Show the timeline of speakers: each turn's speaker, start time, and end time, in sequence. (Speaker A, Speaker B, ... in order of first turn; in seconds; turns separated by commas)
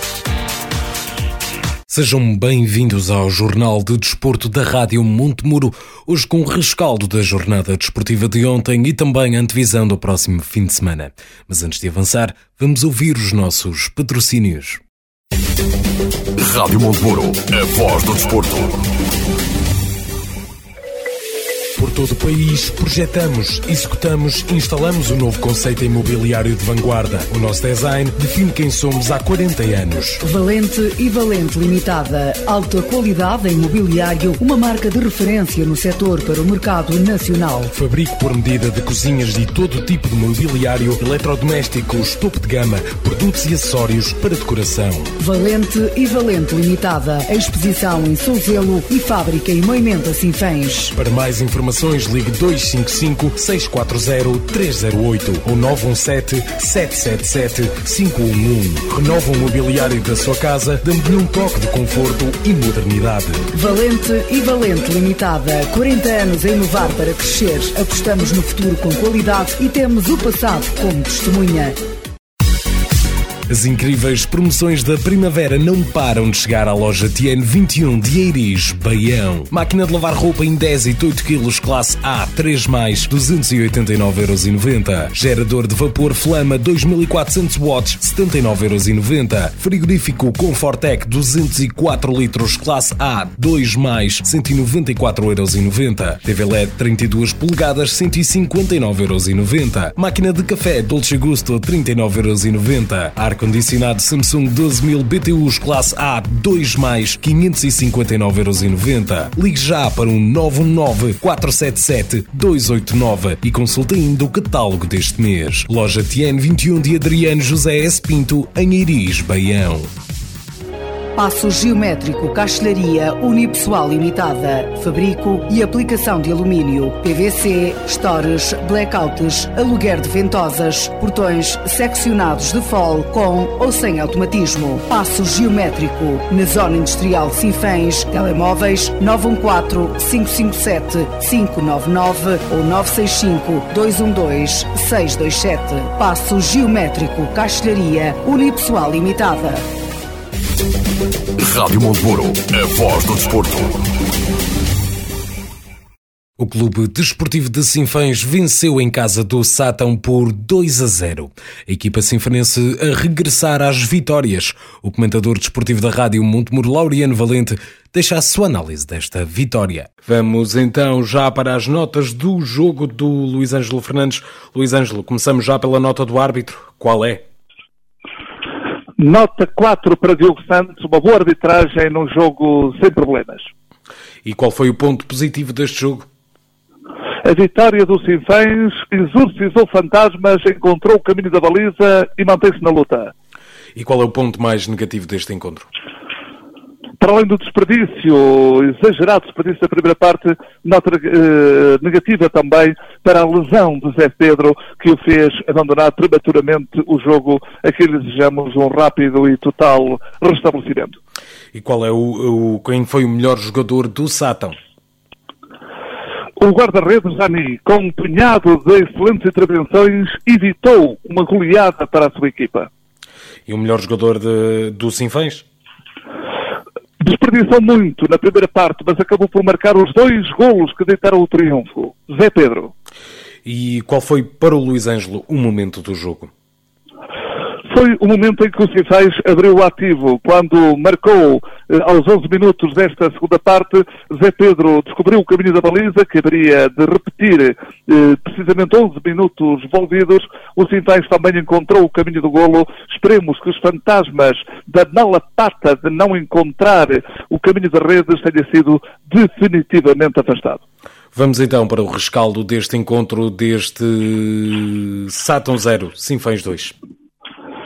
Speaker A: 1.9-14.8, Speaker B: 16.4-18.9, Speaker A: 21.8-30.2, Speaker C: 30.2-37.7, Speaker A: 37.7-45.1, Speaker C: 45.2-50.9, Speaker A: 50.9-63.5, Speaker C: 63.5-71.8, Speaker A: 73.5-119.9, Speaker C: 121.2-149.7, Speaker B: 151.4-153.9, Speaker A: 156.4-177.2, Speaker D: 179.0-183.5, Speaker A: 184.2-186.1, Speaker D: 187.2-193.1, Speaker A: 193.8-195.7, Speaker D: 197.0-211.0, Speaker A: 211.5-214.6, Speaker D: 216.4-222.7, Speaker A: 223.5-225.4, Speaker D: 227.0-232.7, Speaker A: 233.4-236.3, Speaker D: 237.7-260.6, Speaker A: 261.1-266.7